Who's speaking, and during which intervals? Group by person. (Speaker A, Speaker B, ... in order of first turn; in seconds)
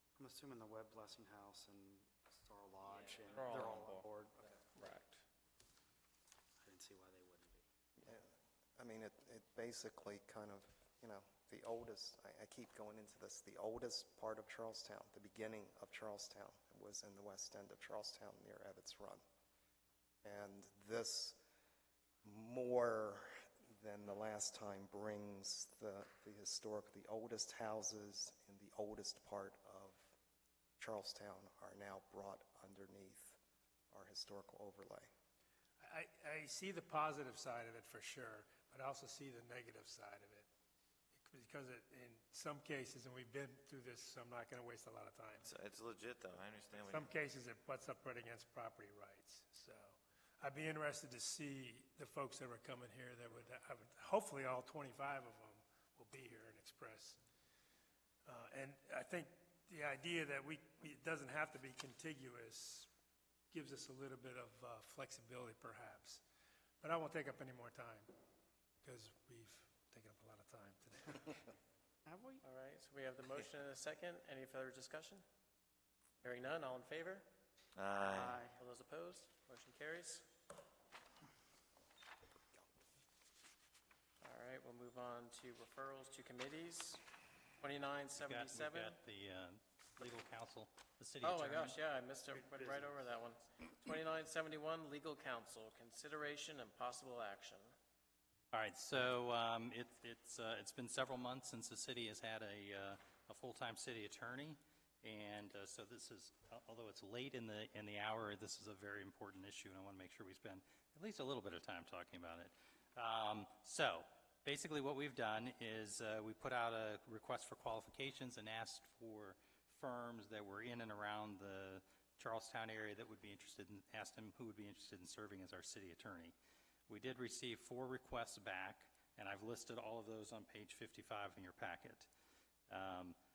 Speaker A: 0.2-4.7, 6.6-7.7, 72.0-72.5, 78.1-78.5, 92.4-93.0
Speaker B: 2.9-5.2
Speaker C: 8.1-19.2, 20.2-21.4, 22.2-30.1, 30.8-33.4, 33.9-35.1
Speaker D: 35.8-40.5, 41.2-45.5, 46.8-57.2, 58.2-62.9, 63.5-66.2, 66.8-68.1, 68.8-71.5
Speaker E: 45.4-47.1, 77.8-78.5
Speaker F: 72.4-75.2, 76.2-77.3, 78.5-80.3, 84.2-87.0, 87.6-89.0, 91.2-97.7
Speaker G: 88.2-91.8, 98.5-126.3, 126.9-132.1, 132.7-133.2